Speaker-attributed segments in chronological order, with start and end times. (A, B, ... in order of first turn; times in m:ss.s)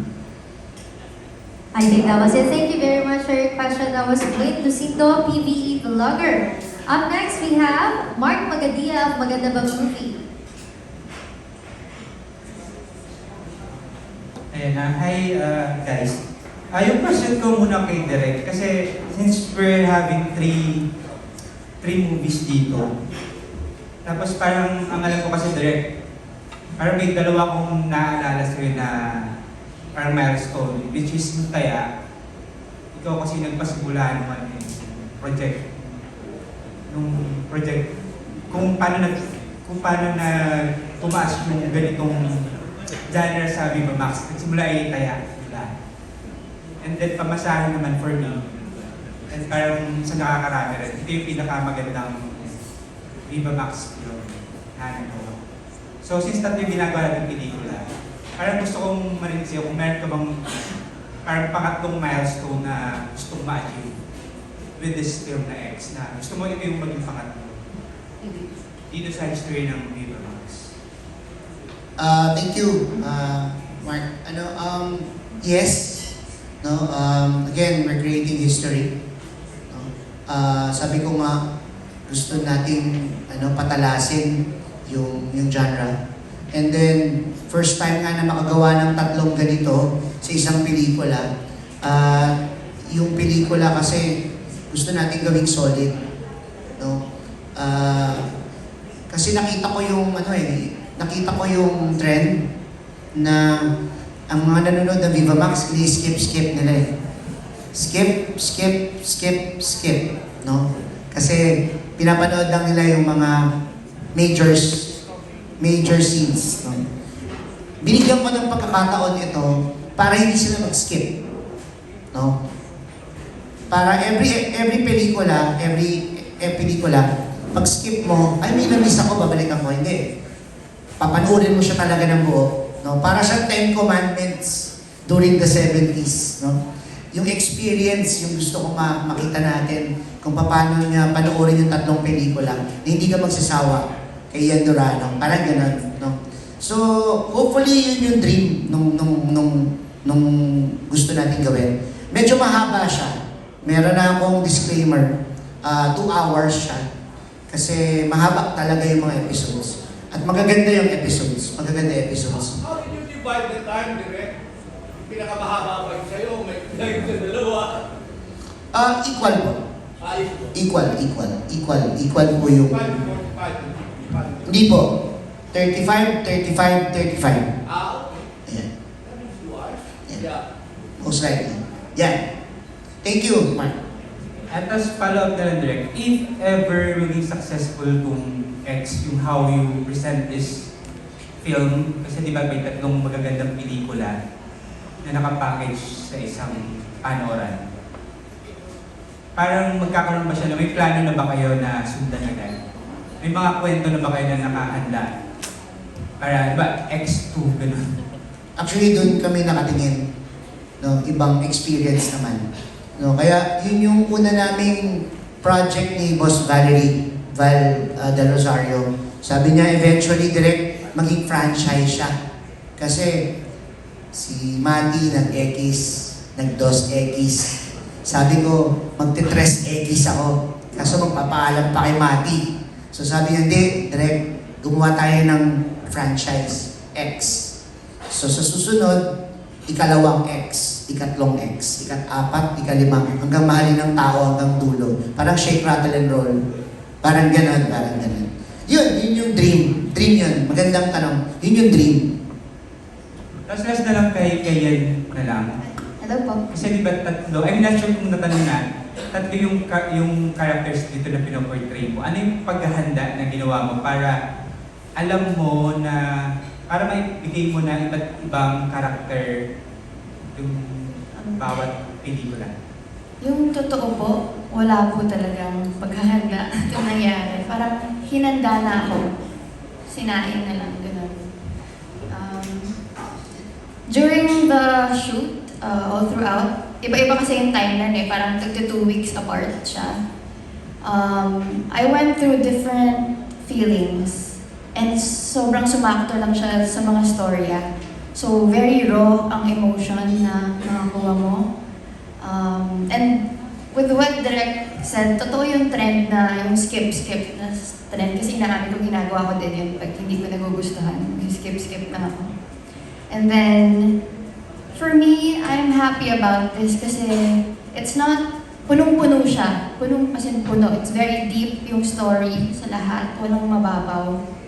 0:01.7-0:10.2 A
0:14.5-0:16.2 B
0:16.7-0:20.8 B
0:21.8-0:22.9 B
0:24.0-0:25.8 B
0:26.8-0:29.0 B
0:30.0-0:31.8 B
0:32.9-0:35.9 B
0:36.9-0:37.8 B
0:38.5-0:42.4 B
0:43.1-0:45.7 B
0:46.8-0:48.4 B
0:49.3-0:52.6 B
0:53.3-0:55.4 B
0:56.0-0:57.8 B
0:58.4-1:00.6 B
1:01.2-1:03.9 B
1:04.8-1:07.6 B
1:08.9-1:10.7 B
1:12.0-1:16.1 C
1:16.6-1:18.9 C
1:19.7-1:21.4 C
1:22.1-1:25.9 C
1:26.5-1:31.3 C
1:31.8-1:32.3 C
1:32.9-1:34.2 C
1:34.7-1:36.0 C
1:37.6-1:38.2 C
1:39.1-1:42.4 C
1:43.2-1:43.7 C
1:44.3-1:46.8 C
1:47.7-1:53.4 C
1:54.1-1:55.0 C
1:55.6-1:56.8 C
1:57.8-2:01.1 C
2:03.7-2:10.0 C
2:11.0-2:16.6 C
2:17.1-2:35.1 C
2:35.6-2:36.8 C
2:37.5-2:42.6 C
2:42.3-2:44.3 D
2:45.0-2:47.9 D
2:48.7-2:49.6 C
2:50.0-2:50.5 D
2:50.5-2:53.0 C
2:52.6-2:54.6 D
2:54.4-2:54.9 C
2:55.5-2:57.5 C
2:57.6-2:58.2 D
2:59.0-3:00.4 D
3:01.0-3:02.2 C
3:03.0-3:03.8 C
3:04.5-3:10.7 B
3:11.4-3:14.2 B
3:15.0-3:17.6 B
3:19.4-3:22.5 B
3:23.2-3:25.1 B
3:26.2-3:27.9 B
3:28.6-3:30.0 C
3:30.8-3:32.4 C
3:33.0-3:42.1 C
3:42.8-3:43.3 C
3:44.1-3:57.5 C
3:58.1-3:59.0 C
3:59.7-4:06.4 C
4:07.0-4:12.1 C
4:13.5-4:15.5 B
4:16.0-4:16.4 E
4:16.5-4:24.2 B
4:25.0-4:26.0 B
4:26.7-4:29.4 B
4:30.3-4:32.5 B
4:33.2-4:39.1 E
4:39.9-4:41.3 E
4:42.1-4:42.8 E
4:43.9-4:50.0 E
4:50.8-5:01.5 E
5:02.2-5:12.3 E
5:13.1-5:13.9 E
5:14.7-5:24.2 E